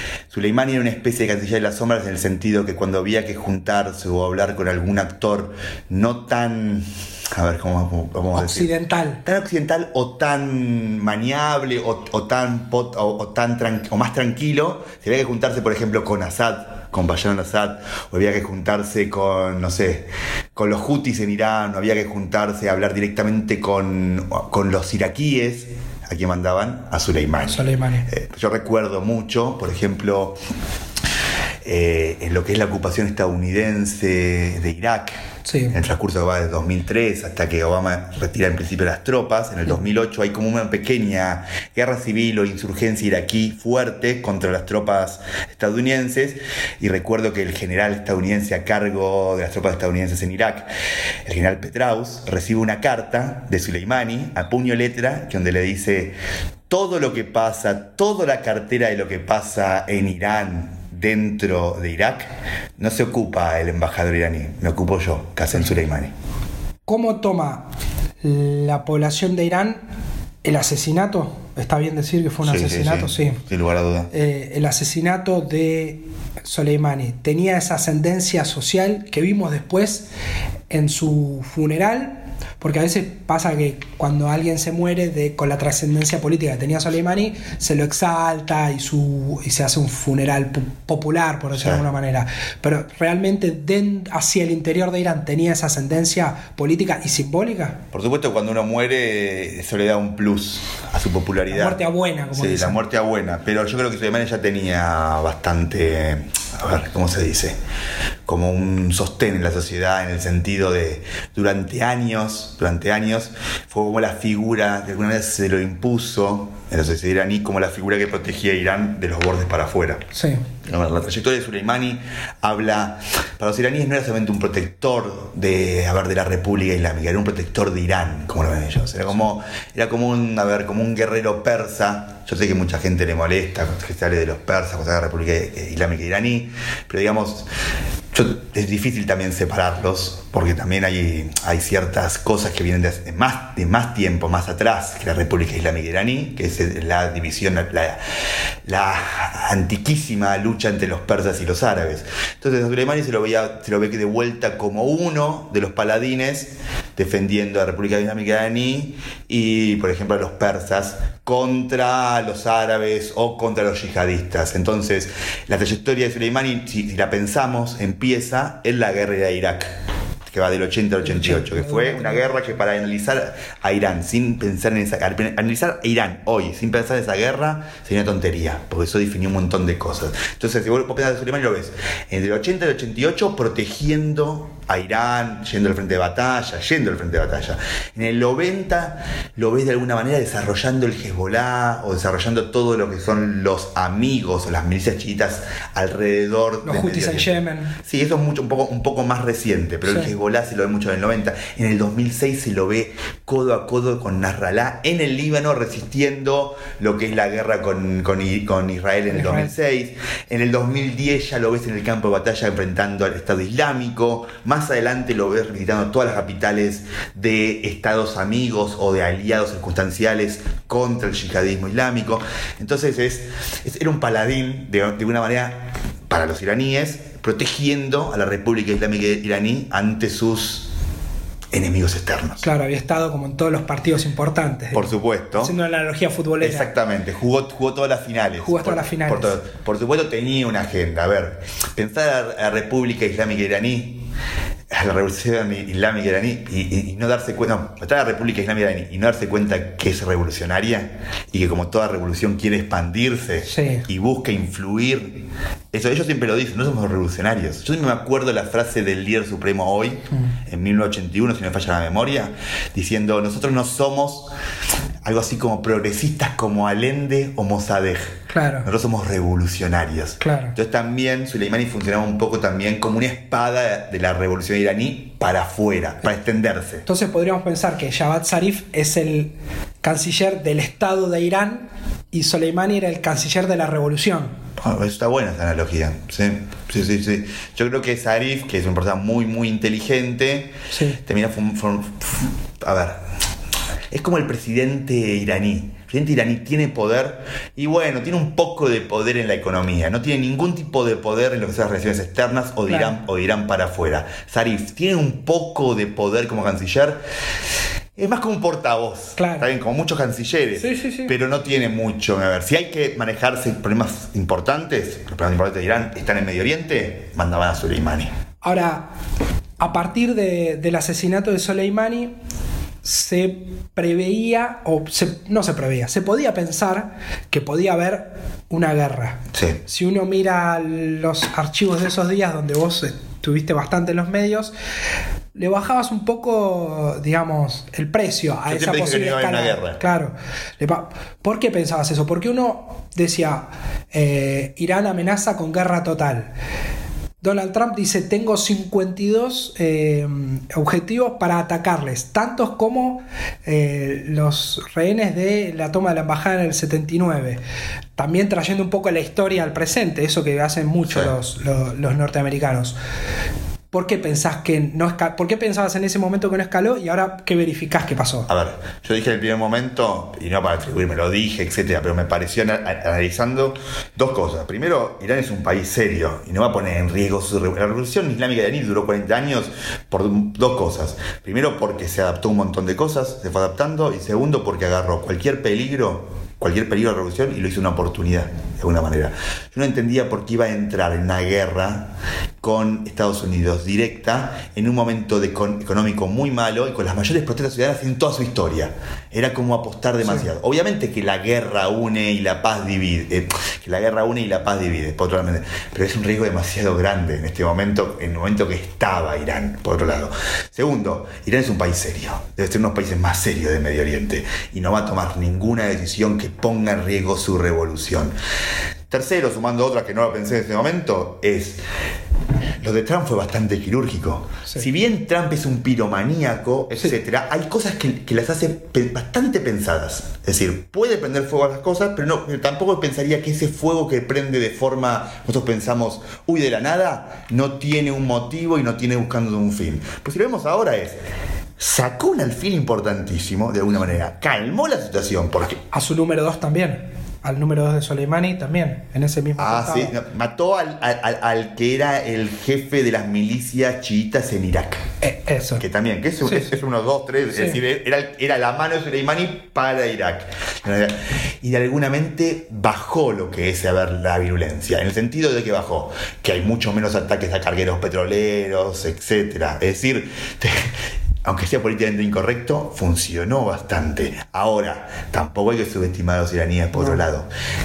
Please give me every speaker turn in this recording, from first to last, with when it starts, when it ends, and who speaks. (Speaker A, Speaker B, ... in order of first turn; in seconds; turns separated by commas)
Speaker A: 0.3-8.7, Speaker B: 8.3-9.2, Speaker A: 9.2-30.4, Speaker B: 27.5-28.1, Speaker A: 31.6-35.2, Speaker B: 35.5-35.8, Speaker A: 35.7-50.7, Speaker A: 51.3-56.2, Speaker A: 56.7-66.1, Speaker B: 66.9-67.7, Speaker B: 68.2-69.8, Speaker B: 70.4-73.4, Speaker A: 72.4-74.1, Speaker B: 74.1-80.1, Speaker B: 80.7-97.8, Speaker A: 91.5-91.8, Speaker A: 97.9-101.8, Speaker B: 101.5-102.8, Speaker A: 102.3-107.6, Speaker A: 108.3-120.0, Speaker B: 120.1-120.4, Speaker A: 120.6-137.5, Speaker A: 138.1-148.0, Speaker A: 148.7-169.7, Speaker A: 170.3-230.7, Speaker B: 171.0-172.4, Speaker B: 196.6-197.7, Speaker B: 199.9-200.1, Speaker B: 209.1-209.5, Speaker A: 231.5-232.4, Speaker B: 232.4-236.7, Speaker A: 234.7-235.5, Speaker A: 236.4-244.1, Speaker B: 238.4-239.3, Speaker A: 244.7-255.2, Speaker B: 253.4-253.8, Speaker A: 255.7-264.3, Speaker A: 265.0-276.9, Speaker B: 268.3-268.7, Speaker B: 270.2-270.6, Speaker B: 276.9-284.3, Speaker A: 284.6-293.0, Speaker B: 290.7-291.0, Speaker A: 293.9-307.0, Speaker B: 302.7-302.9, Speaker A: 308.0-318.1, Speaker B: 309.2-309.5, Speaker B: 310.6-311.1, Speaker B: 318.4-318.9, Speaker B: 319.6-322.1, Speaker B: 322.8-334.5, Speaker A: 329.3-329.6, Speaker B: 335.4-346.3, Speaker A: 338.5-339.8, Speaker B: 347.2-357.4, Speaker B: 358.0-362.8, Speaker A: 360.9-361.1, Speaker B: 363.7-368.3, Speaker A: 368.3-391.9, Speaker A: 392.4-418.1, Speaker A: 418.9-421.6, Speaker A: 422.6-441.0, Speaker A: 441.6-445.6, Speaker B: 445.7-449.9, Speaker A: 449.4-454.8, Speaker B: 455.0-455.6, Speaker A: 455.6-470.7, Speaker B: 456.2-456.5, Speaker B: 457.3-457.6, Speaker A: 471.2-477.3